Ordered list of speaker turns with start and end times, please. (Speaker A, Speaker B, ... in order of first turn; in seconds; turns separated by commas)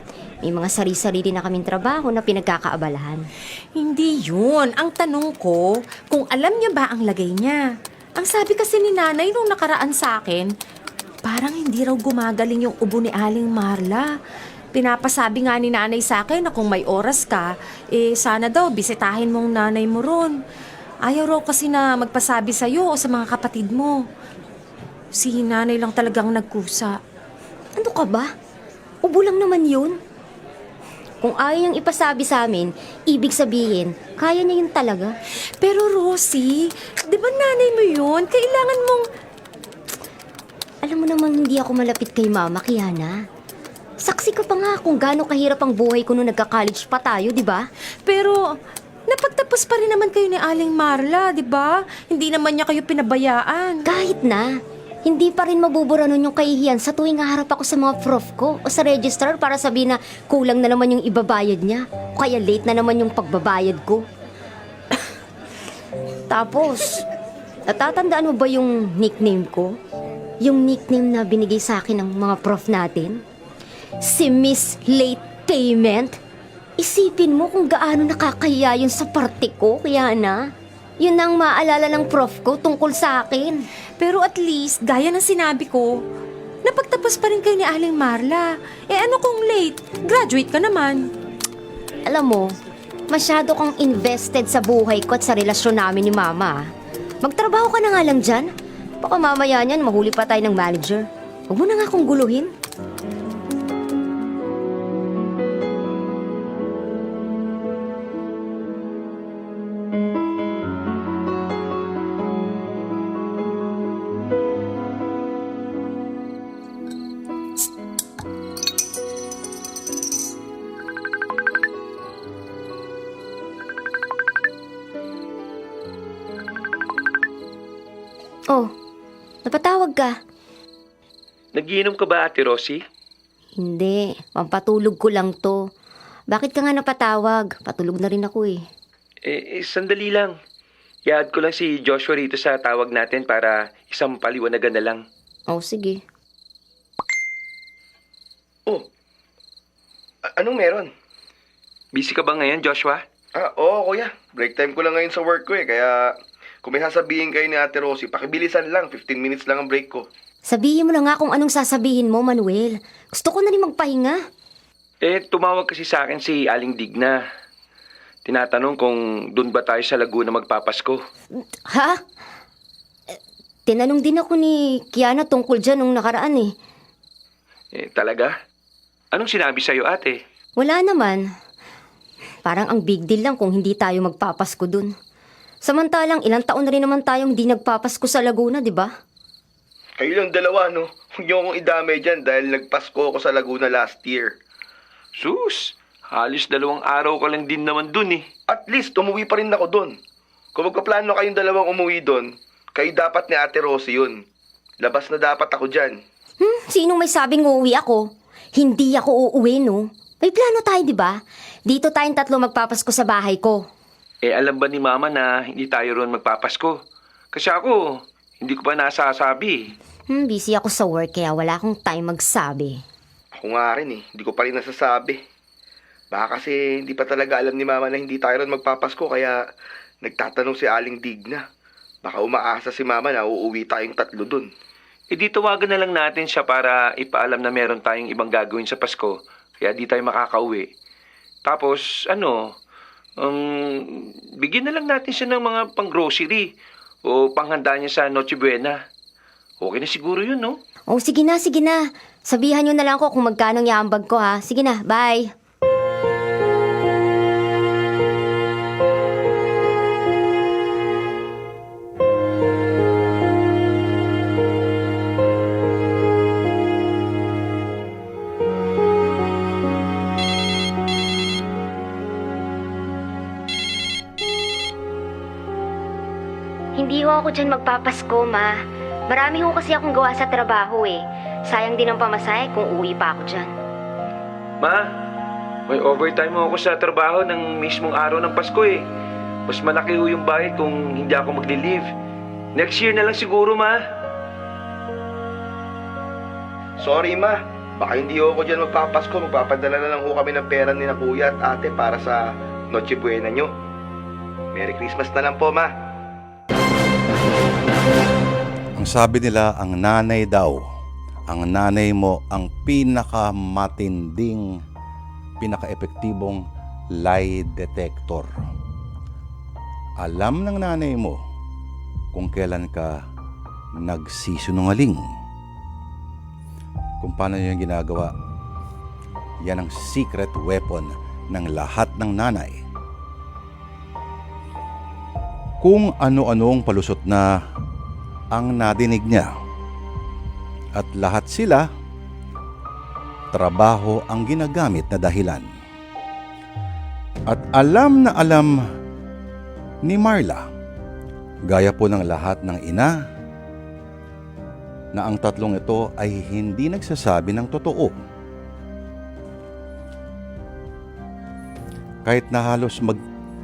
Speaker A: 0.4-3.3, Speaker B: 3.8-10.5, Speaker B: 11.2-14.1, Speaker B: 14.7-20.4, Speaker B: 21.1-24.0, Speaker B: 25.1-27.0, Speaker A: 27.8-28.3, Speaker A: 29.0-30.0, Speaker A: 31.2-35.2, Speaker B: 35.6-39.0, Speaker A: 40.8-43.2, Speaker A: 44.0-47.7, Speaker B: 48.1-48.4, Speaker B: 49.1-53.9, Speaker A: 53.9-64.1, Speaker A: 66.3-67.1, Speaker A: 67.7-69.8, Speaker A: 70.4-73.2, Speaker A: 74.0-76.2, Speaker A: 76.8-80.5, Speaker A: 81.0-83.6, Speaker B: 84.0-85.9, Speaker B: 86.6-91.1, Speaker A: 92.0-92.5, Speaker A: 93.1-96.7, Speaker A: 97.2-102.5, Speaker A: 129.4-130.2, Speaker C: 131.6-132.8, Speaker A: 133.6-135.7, Speaker A: 136.3-138.6, Speaker C: 139.2-140.4, Speaker C: 141.1-145.0, Speaker A: 145.5-146.0, Speaker D: 150.2-150.9, Speaker C: 151.9-153.0, Speaker D: 153.3-160.1, Speaker A: 160.4-164.2, Speaker C: 165.0-167.2, Speaker C: 168.2-171.0, Speaker A: 171.7-172.0, Speaker A: 173.7-176.5, Speaker C: 177.7-178.3, Speaker C: 179.1-180.2, Speaker A: 180.6-181.3, Speaker A: 182.4-184.9, Speaker A: 185.6-188.9, Speaker D: 190.0-194.3, Speaker C: 195.2-198.2, Speaker D: 198.5-200.0, Speaker D: 200.6-204.2, Speaker D: 204.8-206.0, Speaker A: 206.4-213.6, Speaker C: 214.2-216.8, Speaker C: 217.3-219.7, Speaker A: 220.1-222.8, Speaker D: 223.4-225.2, Speaker D: 226.1-229.4, Speaker D: 230.0-231.4, Speaker D: 232.0-234.5, Speaker C: 235.1-240.7, Speaker C: 241.5-242.5, Speaker C: 243.2-246.5, Speaker C: 247.0-248.8, Speaker C: 249.6-250.6, Speaker A: 250.9-255.3, Speaker A: 276.8-283.5, Speaker C: 284.6-284.9, Speaker C: 285.7-288.9, Speaker C: 289.5-291.9, Speaker C: 292.5-293.8, Speaker D: 296.8-303.5, Speaker D: 304.5-305.7, Speaker E: 308.8-310.6, Speaker E: 311.3-314.5, Speaker E: 315.4-316.4, Speaker E: 317.0-318.4, Speaker E: 320.0-321.2, Speaker E: 322.1-323.0, Speaker E: 323.8-325.0, Speaker E: 327.0-328.1, Speaker E: 329.4-332.6, Speaker E: 335.6-337.3, Speaker E: 338.3-339.3, Speaker E: 340.8-341.7, Speaker E: 343.3-345.5, Speaker E: 347.3-348.6, Speaker E: 349.9-350.5, Speaker E: 351.5-352.9, Speaker E: 354.9-357.9, Speaker E: 362.1-363.0